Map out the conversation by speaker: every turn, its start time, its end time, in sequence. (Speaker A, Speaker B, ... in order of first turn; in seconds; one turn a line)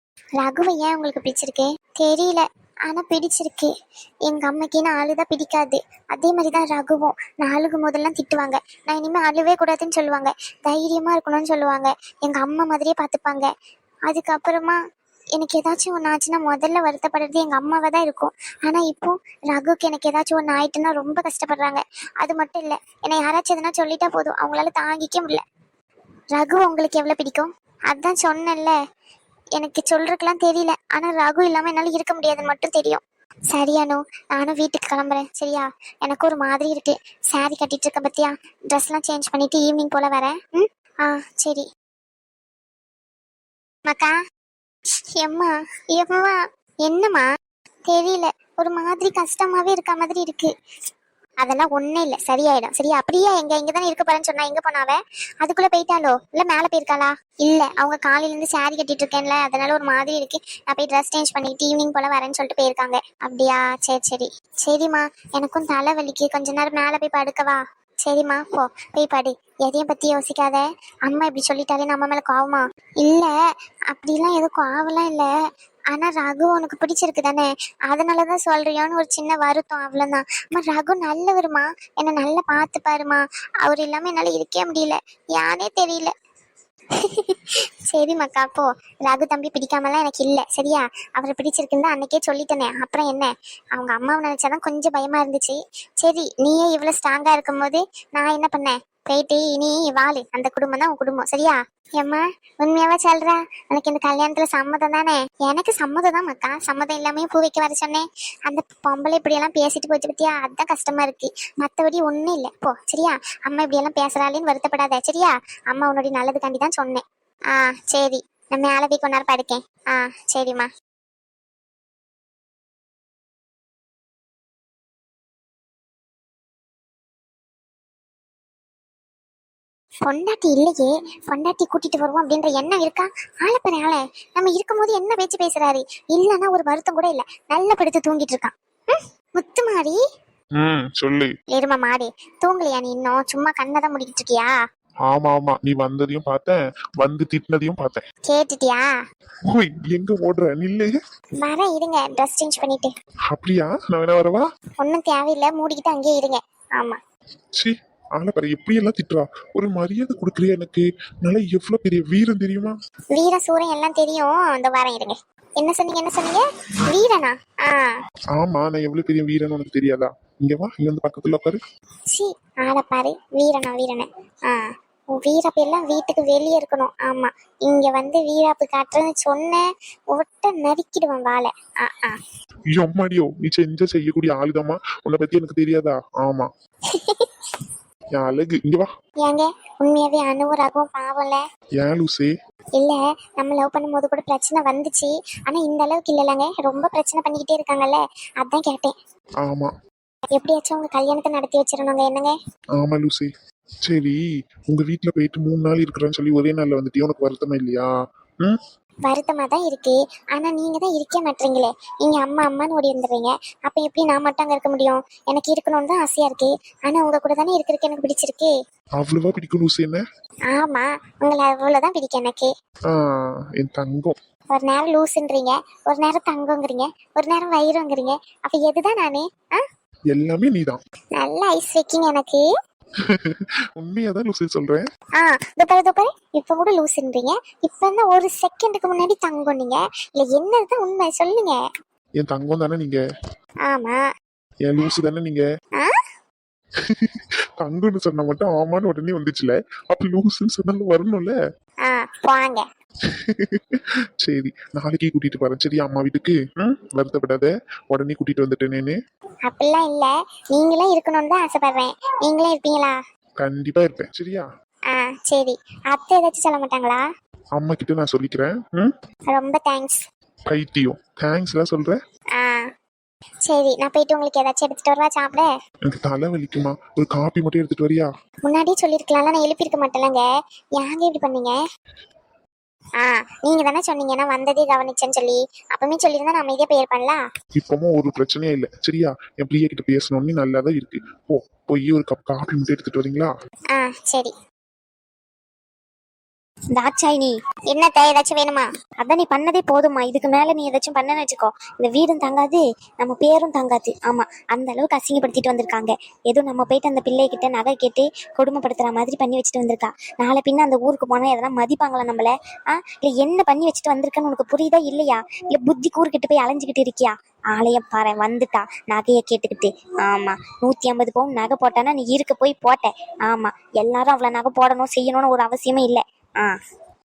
Speaker A: 0.4-3.7
Speaker A: 4.3-13.5
Speaker A: 14.1-14.8
Speaker A: 15.4-25.4
Speaker A: 26.3-28.8
Speaker A: 29.6-33.0
Speaker A: 33.5-41.6
Speaker A: 43.9-44.1
Speaker A: 45.2-47.3
Speaker A: 47.9-50.5
Speaker A: 51.4-73.3
Speaker A: 73.9-75.3
Speaker A: 75.9-86.1
Speaker A: 87.0-87.3
Speaker A: 87.9-120.7
Speaker A: 130.0-140.0
Speaker B: 140.6-141.3
Speaker A: 141.5-144.5
Speaker B: 145.1-148.0
Speaker A: 148.3-148.9
Speaker B: 149.5-150.9
Speaker A: 151.4-152.9
Speaker B: 153.3-154.4
Speaker A: 154.8-157.0
Speaker B: 157.6-162.8
Speaker A: 163.1-167.9
Speaker B: 168.4-171.6
Speaker A: 172.1-182.2
Speaker B: 182.8-186.5
Speaker A: 186.9-187.2
Speaker B: 188.2-188.9
Speaker A: 189.2-191.4
Speaker B: 191.8-192.3
Speaker A: 192.8-198.9
Speaker B: 199.4-199.7
Speaker A: 200.3-202.3
Speaker B: 202.8-203.3
Speaker B: 203.9-204.2
Speaker B: 204.7-207.9
Speaker A: 209.1-218.5
Speaker B: 219.0-220.0
Speaker A: 220.5-222.5
Speaker B: 222.9-224.2
Speaker A: 224.5-229.6
Speaker B: 230.1-230.8
Speaker A: 231.2-232.4
Speaker B: 233.2-234.8
Speaker A: 235.2-241.6
Speaker B: 242.2-243.0
Speaker A: 243.7-244.0
Speaker B: 244.7-245.4
Speaker B: 247.6-251.3
Speaker A: 251.8-252.6
Speaker B: 253.1-259.0
Speaker A: 259.5-263.0
Speaker B: 263.4-264.5
Speaker A: 264.9-267.0
Speaker B: 267.6-268.9
Speaker A: 269.3-270.0
Speaker B: 270.5-272.0
Speaker A: 272.4-272.7
Speaker A: 273.5-275.5
Speaker B: 275.9-278.1
Speaker A: 278.5-280.2
Speaker A: 280.8-281.6
Speaker A: 283.0-287.2
Speaker B: 287.6-293.3
Speaker A: 293.7-294.3
Speaker C: 296.7-297.4
Speaker A: 297.7-298.7
Speaker C: 299.0-312.3
Speaker C: 312.9-326.6